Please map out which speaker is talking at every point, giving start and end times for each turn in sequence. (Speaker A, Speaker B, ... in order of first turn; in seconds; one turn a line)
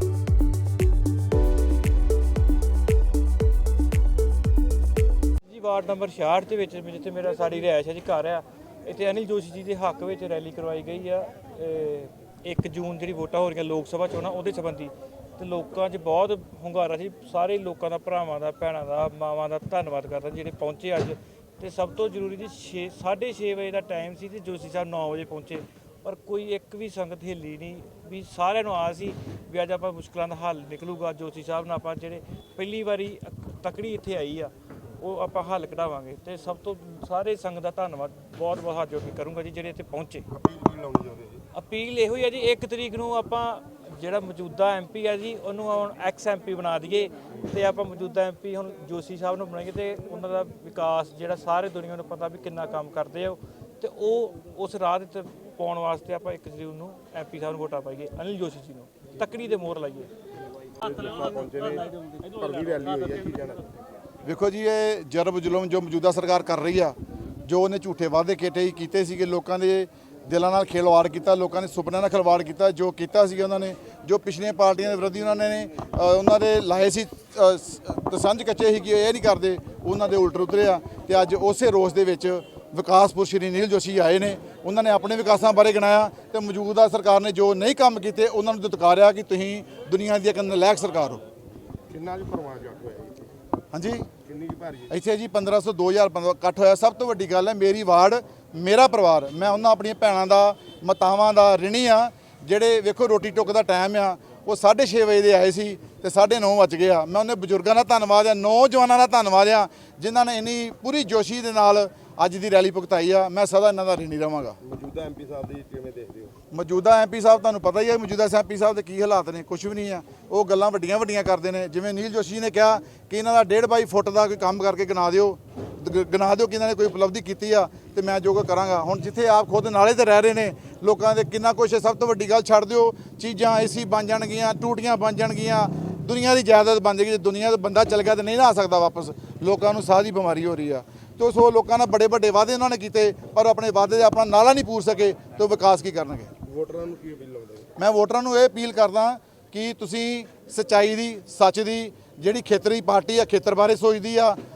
Speaker A: 5.5-40.2
Speaker B: 40.3-41.4
Speaker A: 41.5-60.1
Speaker B: 60.8-63.7
Speaker C: 64.2-91.2
Speaker B: 91.9-93.2
Speaker C: 93.7-94.1
Speaker B: 94.2-94.9
Speaker C: 94.9-114.6
Speaker B: 114.6-116.3
Speaker C: 116.5-146.3
Speaker B: 146.4-147.7
Speaker C: 147.8-154.4